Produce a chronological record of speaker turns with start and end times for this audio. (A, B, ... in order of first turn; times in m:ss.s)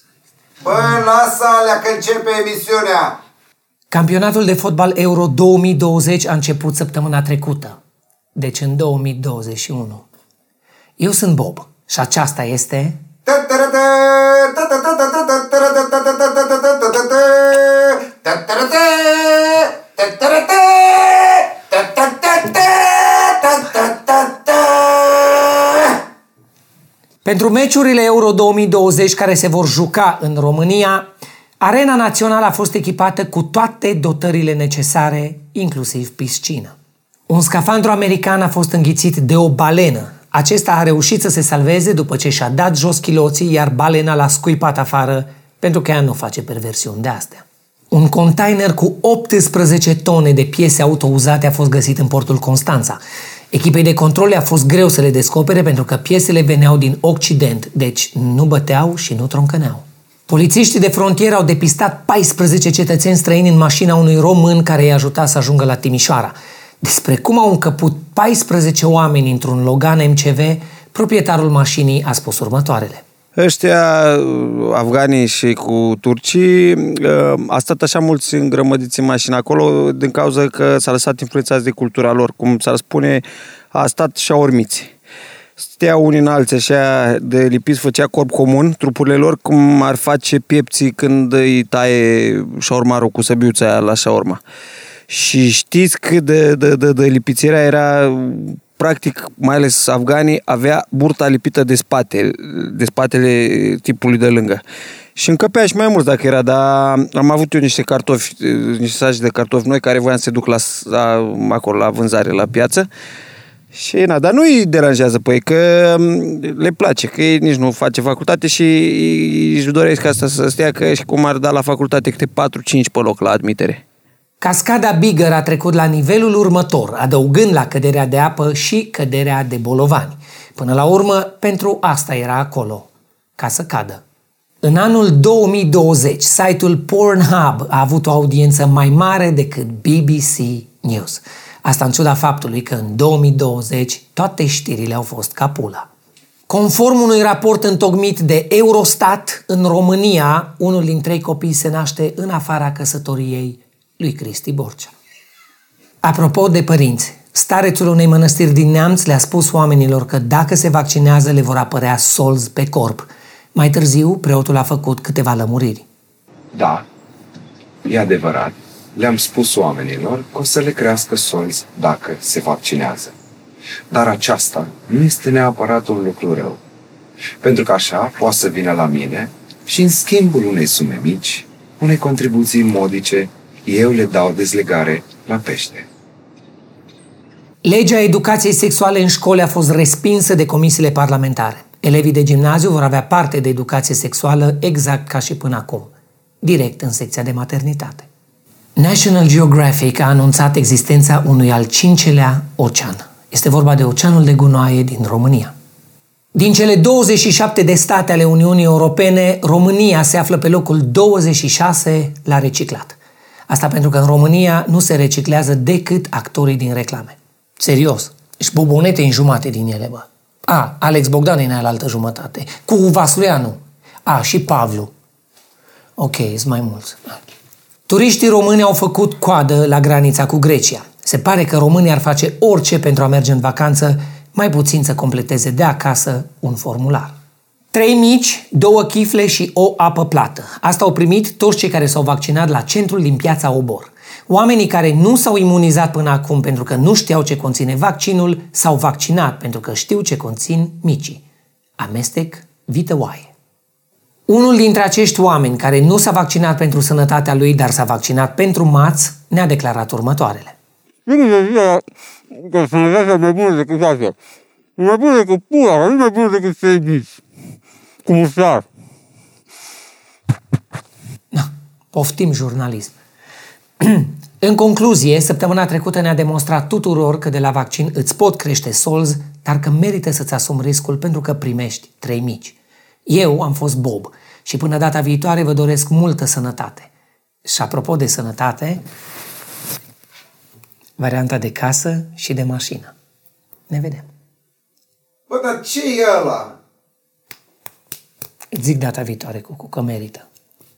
0:00.6-0:03.2 A
0:03.9-0:07.8 B
0:08.4-0:10.1 B
0:11.0-0:13.0 B
0:13.3-0:26.0 A
0:27.2-0:31.1 B
0:31.6-0:36.7 B
0:37.3-0:53.0 B
0:53.5-1:13.0 B
1:13.4-1:23.2 C
1:23.7-1:24.9 C
1:25.6-1:34.4 C
1:35.1-1:44.6 C
1:45.2-1:52.9 C
1:53.7-2:03.8 C
2:04.4-2:14.0 B
2:14.6-2:25.9 B
2:26.5-2:34.9 B
2:36.0-2:45.9 B
2:46.5-2:46.8 D
2:47.8-2:53.1 D
2:53.9-2:56.6 D
2:57.4-3:05.9 D
3:07.6-3:18.1 B
3:18.8-3:25.5 B
3:26.4-3:33.0 B
3:33.5-3:44.9 B
3:46.0-3:47.2 B
3:47.9-3:57.1 B
3:57.7-4:11.2 B
4:11.8-4:13.3 B
4:14.3-4:20.6 B
4:21.1-4:24.2 E
4:24.8-4:27.2 E
4:28.0-4:28.6 E
4:31.3-4:32.9 B
4:33.8-4:42.6 B
4:43.1-4:46.9 B
4:47.4-4:48.8 B
4:51.0-4:52.9 B
4:53.7-4:54.1 B
4:55.3-4:56.6 A
4:58.6-5:00.3 B